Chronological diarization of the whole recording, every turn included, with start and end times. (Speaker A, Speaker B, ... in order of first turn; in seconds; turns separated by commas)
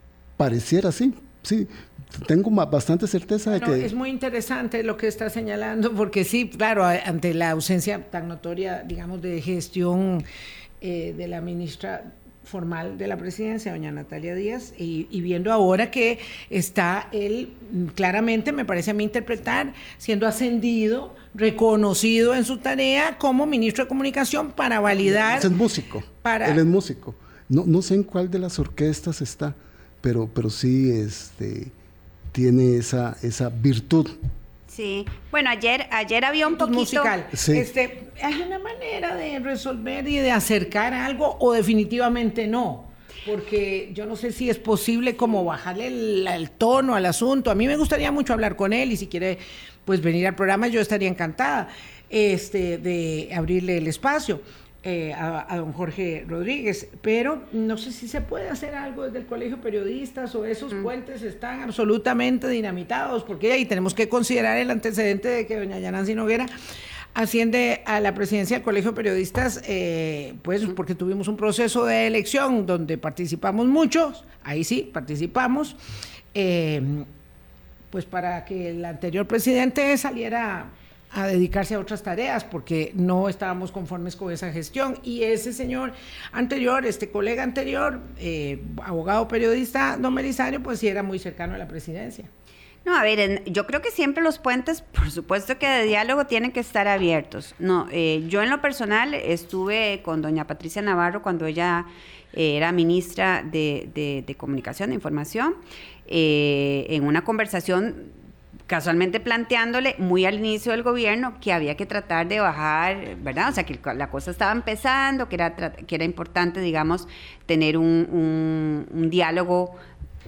Speaker A: 0.4-3.9, Speaker B: 3.5-10.2, Speaker B: 10.8-25.5, Speaker A: 24.9-31.7, Speaker B: 26.2-26.6, Speaker A: 32.3-34.1, Speaker C: 34.7-37.1, Speaker B: 36.5-66.5, Speaker A: 37.3-37.7, Speaker B: 67.1-75.8, Speaker B: 76.3-77.1, Speaker B: 77.9-92.3, Speaker C: 92.8-108.1, Speaker C: 108.7-119.8